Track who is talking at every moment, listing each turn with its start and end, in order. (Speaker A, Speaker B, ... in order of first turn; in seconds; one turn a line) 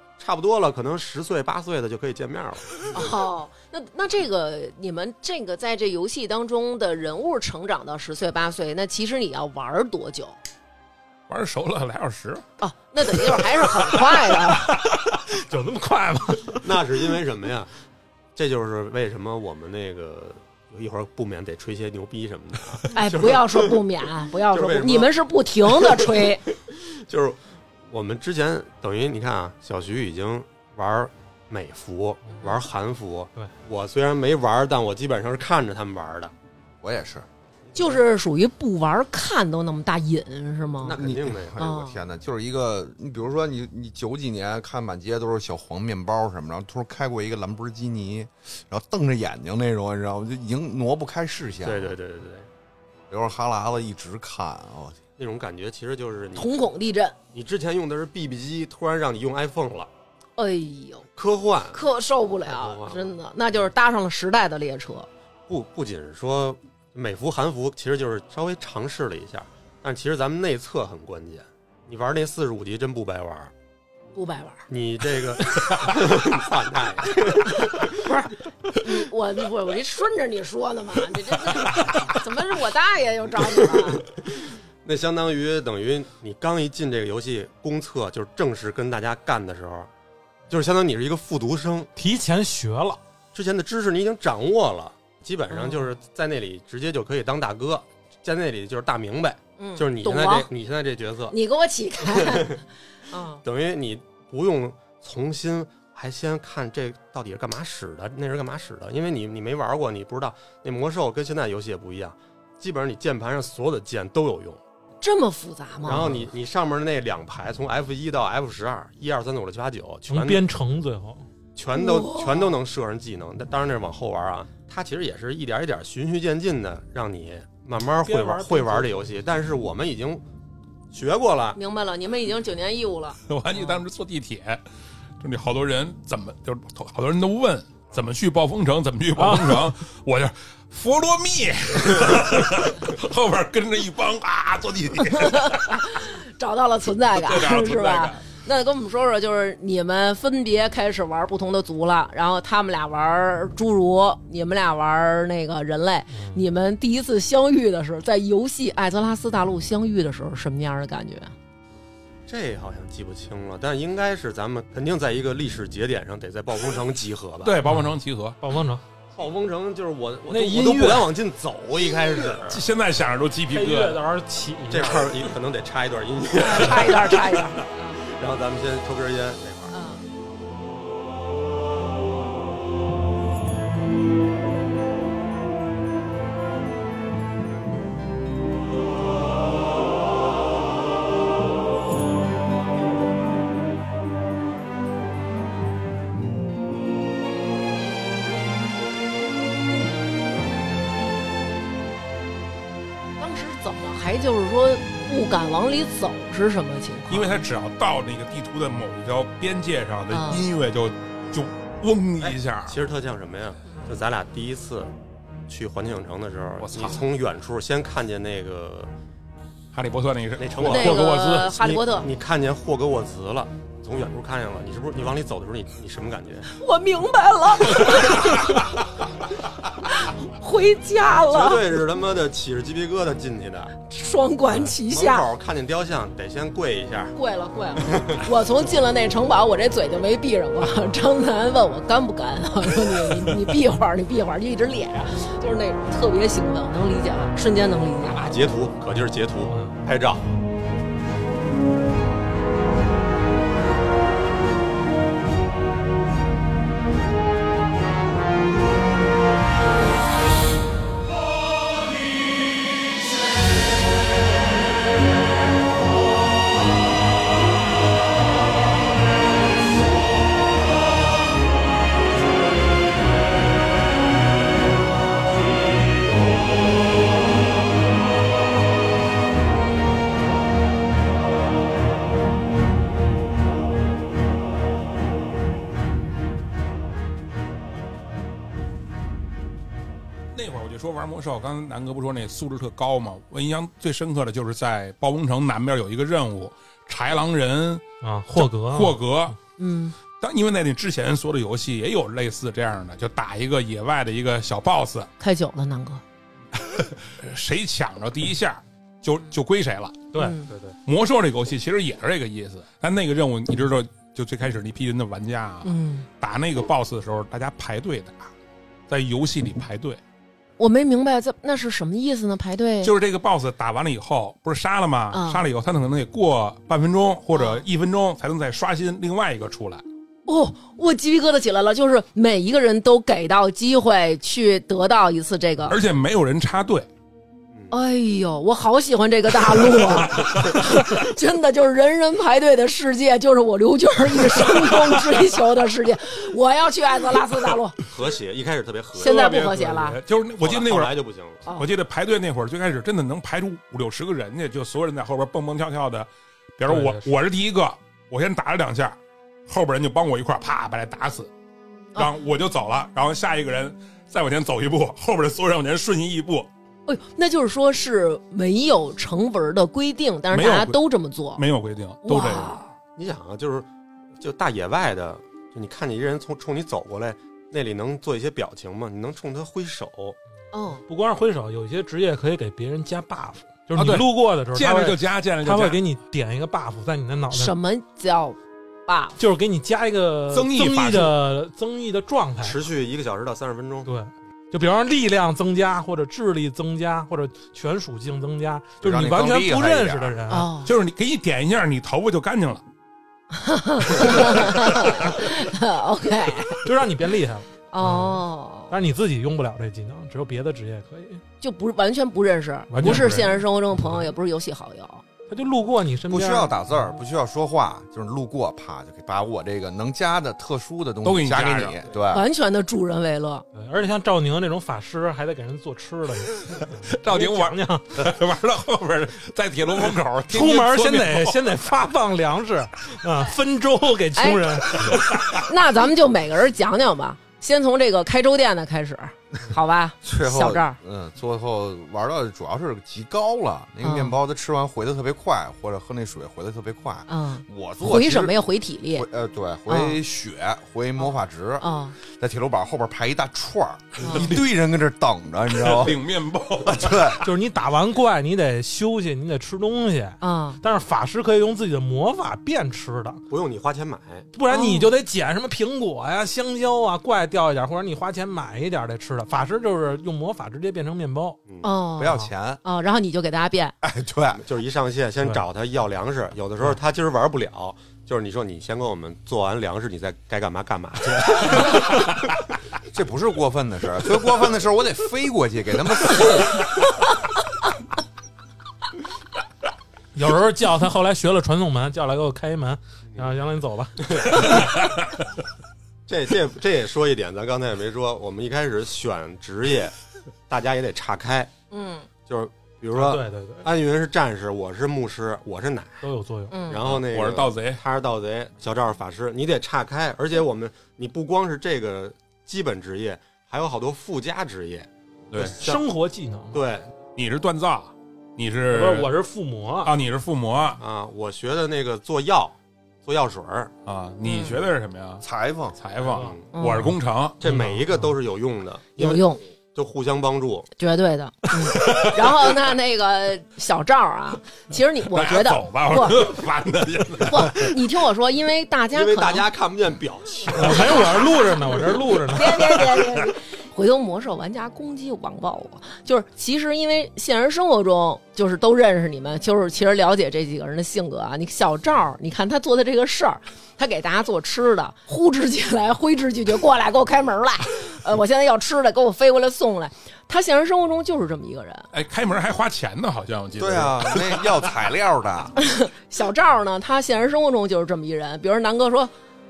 Speaker A: 0.2-3.0
Speaker B: 2.9-10.4
Speaker C: 11.3-12.4
Speaker B: 12.6-14.8
Speaker D: 14.6-16.8
Speaker A: 16.6-17.7
Speaker A: 18.4-23.8
Speaker B: 22.9-26.4
Speaker A: 24.5-36.3
Speaker E: 36.8-37.2
Speaker B: 37.7-41.0
Speaker A: 40.8-41.7
Speaker E: 41.0-51.9
Speaker B: 41.6-42.0
Speaker A: 51.6-52.5
Speaker E: 53.1-55.0
Speaker A: 55.2-56.6
Speaker B: 56.3-57.1
Speaker A: 57.3-59.9
Speaker B: 60.4-61.1
Speaker A: 61.1-61.8
Speaker B: 61.7-65.1
Speaker A: 62.4-63.2
Speaker A: 65.5-73.5
Speaker B: 74.1-74.6
Speaker A: 74.7-78.0
Speaker B: 77.4-84.0
Speaker A: 83.7-84.2
Speaker A: 84.8-89.9
Speaker A: 90.5-91.9
Speaker D: 92.0-93.0
Speaker A: 93.3-101.3
Speaker B: 95.5-95.9
Speaker B: 99.6-100.5
Speaker B: 101.3-103.4
Speaker A: 102.0-102.6
Speaker A: 103.4-114.6
Speaker B: 115.0-116.2
Speaker A: 115.8-120.4
Speaker D: 120.1-121.2
Speaker A: 121.5-130.2
Speaker B: 121.7-122.6
Speaker D: 128.0-129.1
Speaker A: 130.9-131.6
Speaker B: 131.5-133.2
Speaker C: 133.3-134.6
Speaker C: 135.2-145.9
Speaker D: 139.2-139.7
Speaker B: 145.1-161.3
Speaker C: 147.1-148.2
Speaker D: 156.1-156.4
Speaker A: 162.3-167.6
Speaker C: 167.4-168.4
Speaker D: 167.6-168.8
Speaker A: 169.1-172.6
Speaker D: 170.3-171.1
Speaker C: 172.4-174.0
Speaker D: 173.5-175.3
Speaker A: 174.7-180.0
Speaker B: 176.3-178.0
Speaker B: 179.7-180.0
Speaker B: 203.2-207.4
Speaker C: 207.1-212.8
Speaker B: 210.1-210.4
Speaker A: 212.2-214.9
Speaker A: 215.5-218.9
Speaker C: 216.6-217.0
Speaker C: 219.7-221.6
Speaker A: 220.4-226.5
Speaker B: 220.6-222.1
Speaker B: 226.5-228.7
Speaker B: 229.8-231.6
Speaker A: 231.3-233.7
Speaker B: 233.8-235.2
Speaker A: 234.5-237.2
Speaker B: 237.2-248.3
Speaker A: 237.8-238.2
Speaker A: 248.0-250.2
Speaker D: 249.4-249.8
Speaker C: 290.3-299.4
Speaker D: 298.0-299.0
Speaker B: 299.6-300.0
Speaker C: 300.2-305.1
Speaker B: 305.2-306.0
Speaker C: 306.5-310.1
Speaker D: 310.1-310.8
Speaker B: 310.1-310.5
Speaker C: 310.8-318.3
Speaker B: 315.6-316.1
Speaker C: 318.9-320.0
Speaker B: 320.6-322.9
Speaker C: 322.8-329.8
Speaker B: 325.1-325.4
Speaker B: 327.3-327.6
Speaker B: 330.3-335.8
Speaker C: 335.6-336.9
Speaker B: 337.7-347.8
Speaker A: 347.8-349.2
Speaker B: 349.0-350.0
Speaker C: 349.0-350.9
Speaker A: 350.4-351.4
Speaker B: 351.4-351.7
Speaker C: 351.5-361.3
Speaker D: 356.7-357.1
Speaker C: 361.9-366.5
Speaker B: 366.9-371.4
Speaker C: 370.3-370.8
Speaker C: 371.3-372.6
Speaker B: 372.0-372.7
Speaker A: 372.9-373.7
Speaker A: 374.2-380.2
Speaker B: 380.5-380.8
Speaker D: 380.9-387.5
Speaker C: 383.7-385.8
Speaker B: 387.3-389.2
Speaker D: 389.2-392.6
Speaker C: 390.3-391.2
Speaker A: 392.4-393.9
Speaker D: 393.9-400.5
Speaker E: 398.8-400.2
Speaker B: 400.3-400.7
Speaker C: 400.6-402.6
Speaker B: 403.3-406.6
Speaker C: 404.0-404.9
Speaker D: 406.6-411.2
Speaker B: 407.7-408.7
Speaker B: 411.4-415.0
Speaker D: 412.7-414.1
Speaker D: 415.3-416.9
Speaker E: 416.1-422.3
Speaker C: 421.0-421.8
Speaker B: 422.1-423.4
Speaker D: 423.5-428.0
Speaker C: 426.8-431.5
Speaker D: 430.3-435.0
Speaker B: 434.1-440.8
Speaker C: 434.8-435.4
Speaker E: 440.0-448.4
Speaker B: 443.8-444.1
Speaker B: 447.1-449.1
Speaker E: 448.9-456.0
Speaker B: 449.7-450.0
Speaker B: 451.0-452.0
Speaker B: 454.0-454.3
Speaker C: 454.1-454.4
Speaker C: 455.5-457.2
Speaker E: 456.6-457.2
Speaker D: 457.2-463.2
Speaker B: 460.2-460.6
Speaker A: 463.3-464.3
Speaker D: 464.3-471.4
Speaker B: 464.5-464.9
Speaker B: 471.6-473.8
Speaker E: 472.0-472.6
Speaker E: 473.8-474.4
Speaker A: 474.4-482.0
Speaker E: 482.9-486.6
Speaker D: 490.1-494.4
Speaker A: 494.0-494.5
Speaker A: 496.1-499.9
Speaker A: 500.5-501.5
Speaker B: 501.7-502.1
Speaker A: 502.3-506.1
Speaker D: 502.9-503.7
Speaker D: 506.0-506.6
Speaker B: 506.5-506.8
Speaker A: 506.7-515.8
Speaker C: 506.8-507.8
Speaker C: 515.3-515.6
Speaker D: 515.4-516.6
Speaker A: 516.5-516.9
Speaker C: 517.1-519.1
Speaker D: 518.7-519.9
Speaker C: 519.8-520.8
Speaker A: 520.8-523.7
Speaker C: 523.8-525.2
Speaker B: 524.2-524.6
Speaker E: 525.2-525.8
Speaker C: 525.7-527.4
Speaker A: 526.1-526.5
Speaker B: 526.5-526.9
Speaker A: 527.4-530.7
Speaker D: 527.4-528.1
Speaker B: 529.0-529.4
Speaker B: 530.8-536.3
Speaker C: 531.6-532.5
Speaker C: 535.1-537.8
Speaker B: 537.2-539.5
Speaker A: 538.9-541.2
Speaker D: 540.5-542.6
Speaker B: 540.6-541.2
Speaker B: 542.2-561.9
Speaker C: 542.9-543.2
Speaker C: 561.9-564.6
Speaker E: 563.6-565.5
Speaker B: 565.6-569.1